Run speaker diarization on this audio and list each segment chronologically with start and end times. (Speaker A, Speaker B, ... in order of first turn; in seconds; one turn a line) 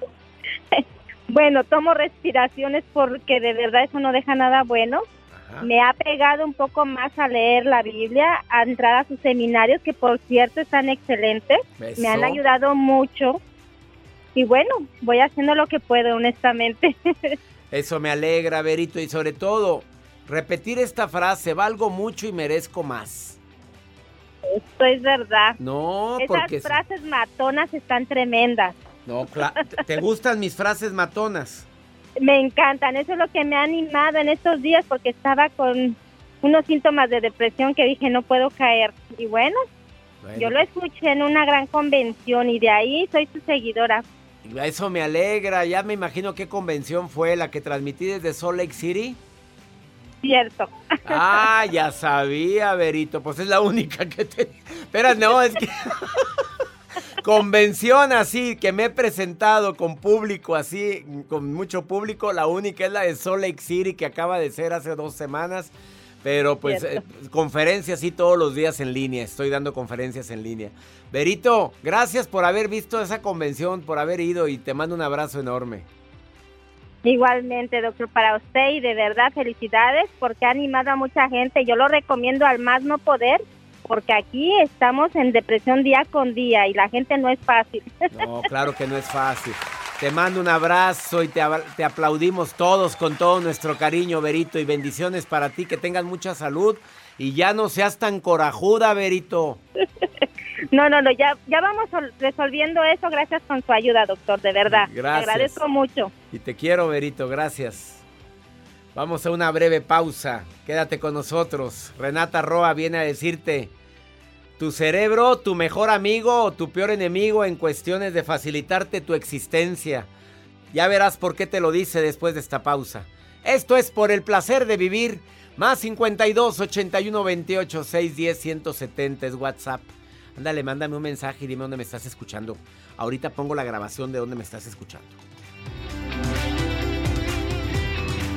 Speaker A: 0.7-5.0
Speaker B: 5.3-5.7
Speaker A: 5.6-13.4
Speaker B: 11.8-12.4
Speaker A: 14.3-17.3
Speaker B: 17.7-23.4
Speaker A: 24.5-25.6
Speaker B: 25.6-26.8
Speaker A: 26.2-28.8
Speaker B: 29.1-31.6
Speaker A: 32.2-39.6
Speaker B: 40.2-40.6
Speaker A: 40.4-44.0
Speaker B: 44.4-49.2
Speaker A: 50.2-51.4
Speaker B: 51.1-56.2
Speaker B: 57.2-65.7
Speaker B: 66.2-75.9
Speaker A: 77.0-87.8
Speaker B: 88.1-99.6
Speaker A: 100.7-106.1
Speaker B: 104.7-105.6
Speaker B: 106.3-108.0
Speaker B: 108.9-113.7
Speaker B: 114.6-120.1
Speaker B: 120.7-135.2